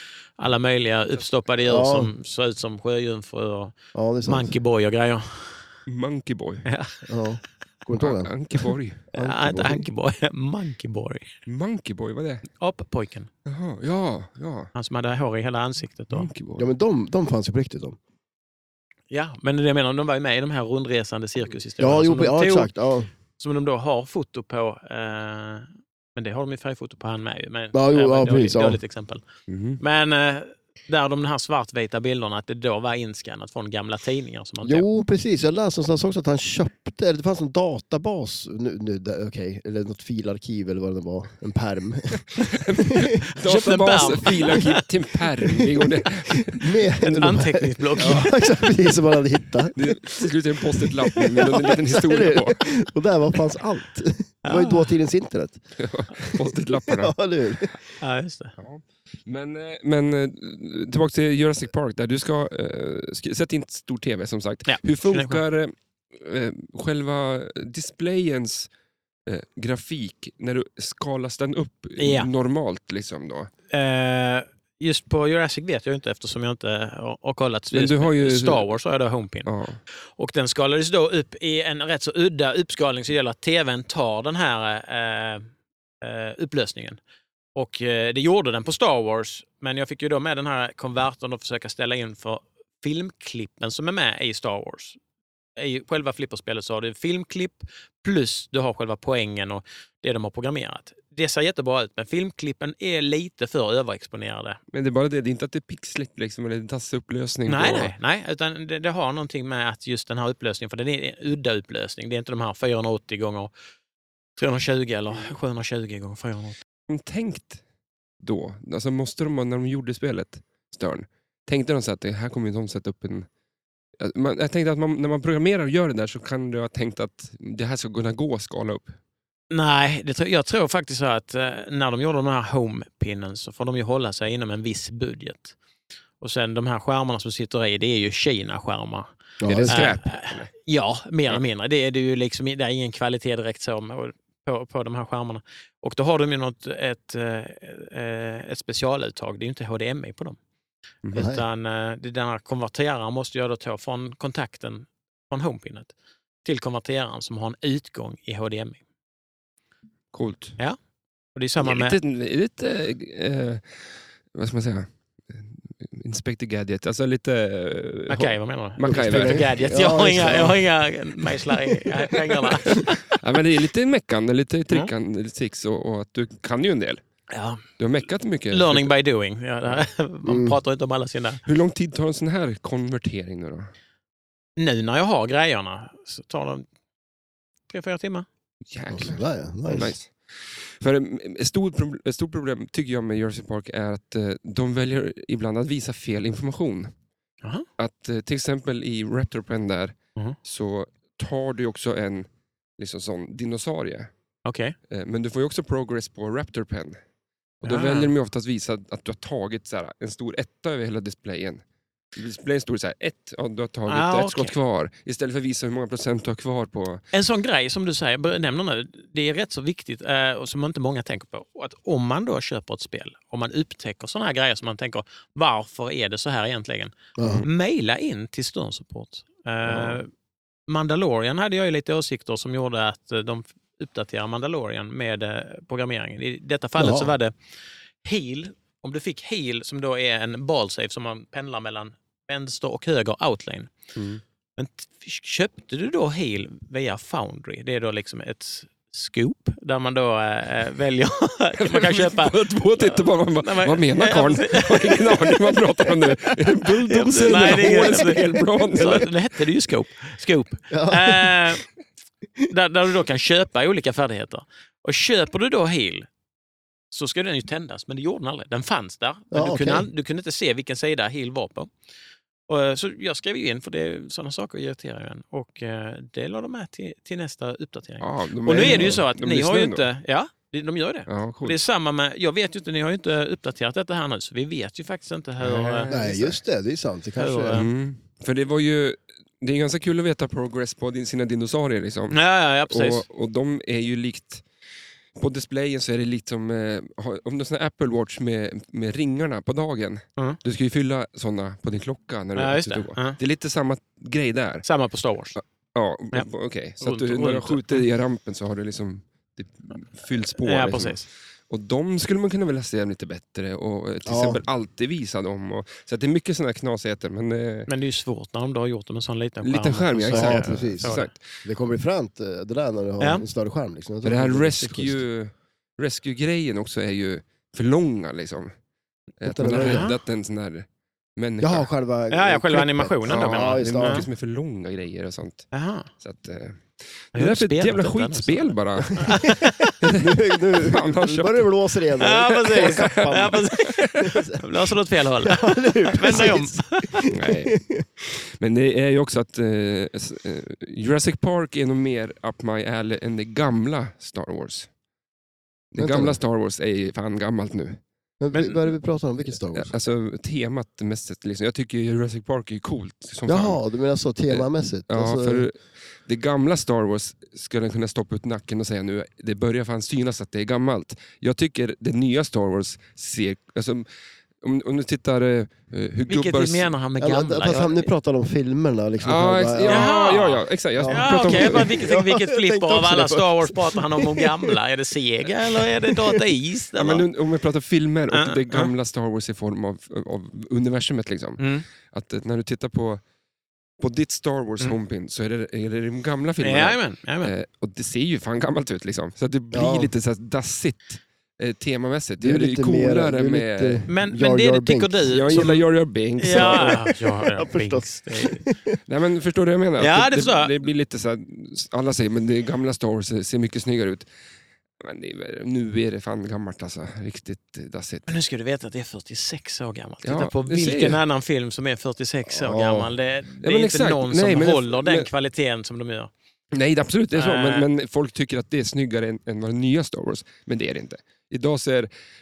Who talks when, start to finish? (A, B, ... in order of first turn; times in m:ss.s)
0:00.4-0:03.7 A
0:01.6-0:02.1 B
0:03.9-0:04.6 B
0:04.3-0:05.7 A
0:05.9-0:06.7 C
0:06.7-0:07.0 A
0:07.1-0:08.3 B
0:08.0-0:09.0 C
0:09.1-0:09.9 B
0:09.2-0:11.3 A
0:11.4-0:12.5 C
0:12.6-0:13.3 A
0:13.4-0:14.7 C
0:14.7-0:16.3 A
0:16.1-0:16.7 C
0:16.6-0:18.0 B
0:19.1-0:22.7 A
0:21.8-0:23.1 B
0:23.4-0:29.2 A
0:27.7-0:28.8 B
0:29.5-0:29.8 C
0:29.8-0:34.9 A
0:34.6-0:42.9 B
0:42.4-0:47.2 C
0:43.4-0:44.8 A
0:46.6-0:50.2 B
0:47.0-0:48.3 A
0:48.0-0:48.3 C
0:49.7-0:52.6 C
0:51.1-0:55.6 B
0:54.4-0:54.9 A
0:55.8-0:57.1 C
0:56.2-0:57.8 B
0:58.0-0:58.6 A
0:58.6-1:08.7 C
1:04.7-1:05.4 A
1:09.3-1:13.5 C
1:12.0-1:12.3 A
1:13.7-1:19.5 A
1:17.7-1:18.7 C
1:19.4-1:19.8 C
1:20.2-1:25.5 A
1:26.0-1:27.0 A
1:27.6-1:35.0 A
1:35.6-1:44.6 A
1:44.7-1:47.9 C
1:47.5-1:53.5 A
1:54.4-1:56.6 A
1:56.9-1:57.6 C
1:58.2-2:03.3 C
2:04.0-2:09.0 C
2:09.5-2:15.6 A
2:16.2-2:19.1 A
2:19.4-2:19.9 B
2:19.4-2:20.5 C
2:19.7-2:30.4 A
2:31.1-2:31.4 B
2:31.1-2:35.9 A
2:36.4-2:38.8 A
2:40.1-2:40.6 C
2:41.3-2:42.0 A
2:41.6-2:49.6 C
2:48.1-2:53.0 A
2:48.8-2:50.6 B
2:52.6-2:57.0 C
2:57.3-2:57.6 A
2:57.8-2:59.0 C
2:58.5-3:01.4 A
3:00.2-3:00.6 B
3:01.4-3:03.7 C
3:04.6-3:06.7 A
3:07.7-3:08.3 A
3:08.7-3:16.9 C
3:08.9-3:09.9 B
3:17.4-3:17.7 A
3:17.8-3:24.1 C
3:24.4-3:24.8 A
3:24.9-3:27.0 C
3:27.6-3:31.6 C
3:27.6-3:28.1 A
3:32.1-3:37.0 C
3:33.9-3:34.6 A
3:37.1-3:50.1 A
3:47.2-3:47.4 B
3:49.6-3:50.0 B
3:50.7-3:57.3 A
3:56.8-3:57.1 B
3:58.0-4:03.7 A
4:04.0-4:04.2 C
4:04.6-4:21.6 A
4:11.6-4:19.1 C
4:20.7-4:21.5 B
4:22.5-4:26.1 A
4:26.9-4:31.7 A
4:29.3-4:29.9 B
4:32.5-4:46.4 A
4:38.0-4:39.9 C
4:38.6-4:39.0 B
4:41.1-4:41.6 C
4:45.4-4:45.9 C
4:45.9-4:47.6 B
4:47.2-4:47.7 A
4:47.5-4:54.4 C
4:52.1-4:53.0 A
4:55.2-5:04.6 C
5:02.4-5:03.2 A
5:04.6-5:05.4 A
5:05.4-5:17.7 C
5:06.8-5:07.8 A
5:10.3-5:11.0 A
5:14.0-5:14.4 B
5:17.7-5:21.1 A
5:19.4-5:21.3 C
5:20.1-5:25.0 B
5:23.0-5:23.3 A
5:24.0-5:28.5 C
5:29.2-5:31.7 C
5:29.2-5:29.9 B
5:29.5-5:30.0 A
5:31.4-5:34.0 B
5:32.1-5:34.1 A
5:33.0-5:39.2 C
5:35.5-5:35.9 A
5:37.1-5:39.7 A
5:39.1-5:43.4 B
5:39.8-5:41.5 C
5:42.0-5:47.0 A
5:42.1-5:43.9 C
5:44.0-5:44.4 B
5:45.2-5:47.8 B
5:47.1-5:47.6 C
5:48.1-5:54.7 C
5:55.7-5:57.8 C
5:55.8-5:56.2 B
5:58.2-5:59.7 B
5:59.5-6:03.6 C
6:03.3-6:05.4 B
6:04.3-6:13.9 C
6:14.4-6:16.7 C
6:16.1-6:17.9 A
6:17.0-6:19.9 B
6:19.0-6:21.8 C
6:19.7-6:27.1 A
6:20.8-6:24.5 B
6:25.4-6:26.2 B
6:26.7-6:33.0 C
6:28.1-6:28.7 A
6:31.4-6:31.7 A
6:33.8-6:43.9 C
6:36.4-6:37.3 A
6:39.5-6:39.9 B
6:42.2-6:45.4 B
6:43.9-6:45.7 A
6:45.1-6:46.8 C
6:46.2-6:48.4 A
6:46.3-6:48.7 B
6:48.9-6:54.1 C
6:49.8-6:50.6 A
6:54.8-6:58.1 C
6:58.1-7:06.1 A
7:00.0-7:01.0 C
7:02.2-7:03.0 B
7:03.4-7:05.1 C
7:06.5-7:11.9 C
7:07.1-7:07.7 A